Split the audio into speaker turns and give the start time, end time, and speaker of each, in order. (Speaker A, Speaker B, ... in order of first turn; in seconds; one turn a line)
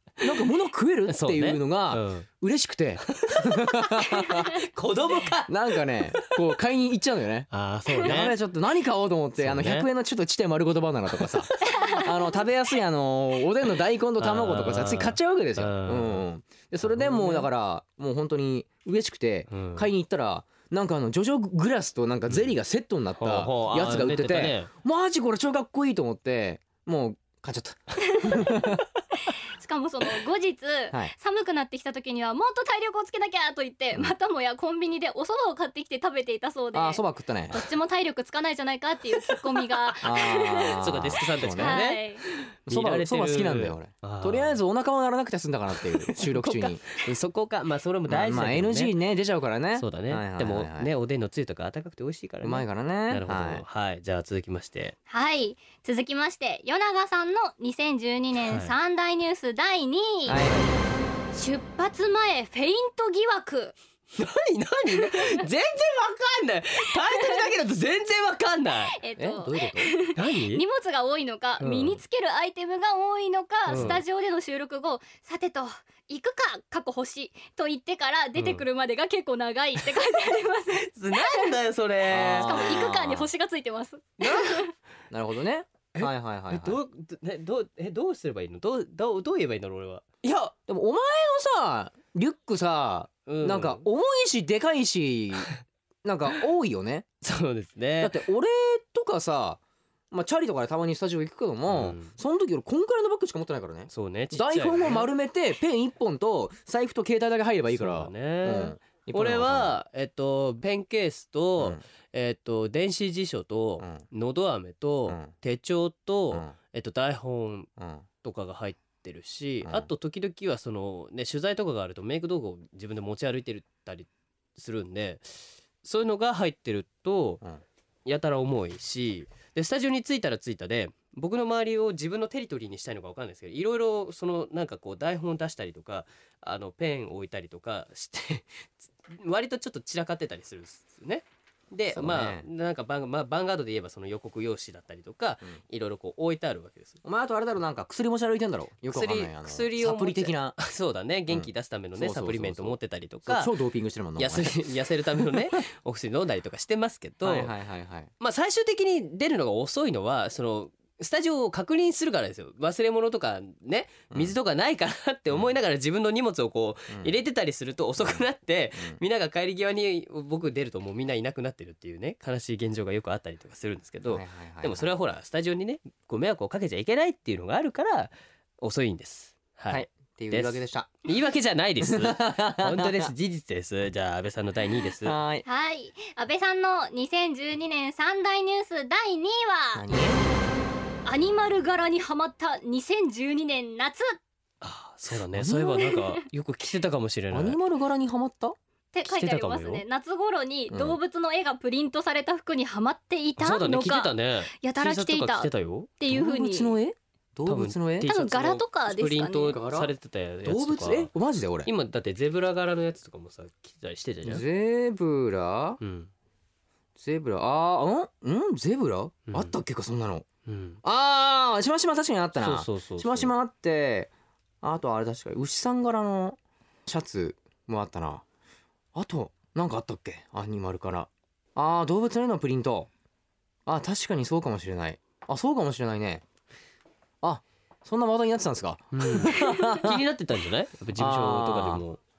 Speaker A: 0.2-4.5
Speaker B: 1.1-2.3
Speaker B: 3.1-6.3
Speaker A: 5.5-28.8
Speaker B: 7.5-8.3
Speaker B: 9.4-9.9
Speaker B: 14.2-16.2
Speaker B: 16.8-17.5
Speaker B: 19.5-19.9
Speaker B: 23.2-24.7
Speaker C: 29.6-40.8
Speaker A: 36.7-37.6
Speaker A: 40.0-41.8
Speaker B: 40.8-42.0
Speaker C: 41.5-42.2
Speaker B: 42.7-44.6
Speaker A: 42.7-46.9
Speaker B: 46.1-48.9
Speaker A: 48.1-50.9
Speaker B: 49.7-54.9
Speaker A: 52.4-53.6
Speaker C: 55.1-60.4
Speaker B: 58.4-58.7
Speaker A: 60.2-60.7
Speaker C: 61.3-63.7
Speaker B: 64.2-69.0
Speaker C: 65.0-65.4
Speaker C: 67.0-67.5
Speaker C: 68.9-81.5
Speaker A: 69.2-69.9
Speaker B: 70.1-70.6
Speaker B: 71.6-72.0
Speaker B: 73.7-74.0
Speaker A: 73.7-74.0
Speaker B: 78.4-78.6
Speaker B: 80.8-82.7
Speaker A: 82.1-83.3
Speaker C: 82.2-84.7
Speaker A: 85.1-86.8
Speaker B: 85.9-90.5
Speaker A: 90.5-95.5
Speaker B: 93.2-93.9
Speaker A: 96.0-97.1
Speaker B: 97.2-98.2
Speaker A: 98.0-99.6
Speaker A: 100.1-109.7
Speaker B: 101.7-102.1
Speaker B: 103.9-105.1
Speaker B: 107.7-117.7
Speaker A: 117.8-118.0
Speaker B: 118.2-127.4
Speaker A: 119.6-119.9
Speaker B: 128.1-147.0
Speaker A: 141.9-142.4
Speaker A: 147.0-150.6
Speaker B: 148.9-153.5
Speaker A: 151.3-154.6
Speaker B: 154.2-157.5
Speaker A: 155.2-155.4
Speaker A: 157.2-158.1
Speaker B: 158.2-185.2
Speaker A: 164.1-164.3
Speaker A: 166.9-167.2
Speaker A: 168.8-169.0
Speaker A: 174.1-174.9
Speaker A: 179.7-180.9
Speaker A: 181.8-183.1
Speaker A: 185.0-185.4
Speaker C: 185.4-189.8
Speaker A: 189.7-190.2
Speaker C: 191.1-194.2
Speaker B: 194.6-197.6
Speaker A: 195.3-195.8
Speaker A: 197.3-198.6
Speaker C: 198.9-206.8
Speaker B: 199.1-199.8
Speaker A: 200.7-201.0
Speaker B: 203.4-205.9
Speaker A: 206.1-208.1
Speaker B: 207.4-211.1
Speaker C: 208.0-209.6
Speaker A: 209.4-209.9
Speaker A: 210.4-211.7
Speaker B: 211.6-214.4
Speaker A: 214.2-215.8
Speaker B: 215.8-216.1
Speaker A: 217.0-220.2
Speaker B: 219.3-219.6
Speaker B: 220.4-220.8
Speaker A: 220.8-224.1
Speaker B: 222.4-223.3
Speaker A: 224.6-228.2
Speaker A: 228.9-232.9
Speaker A: 233.7-236.2
Speaker A: 237.2-240.0
Speaker B: 239.0-242.0
Speaker A: 240.9-241.8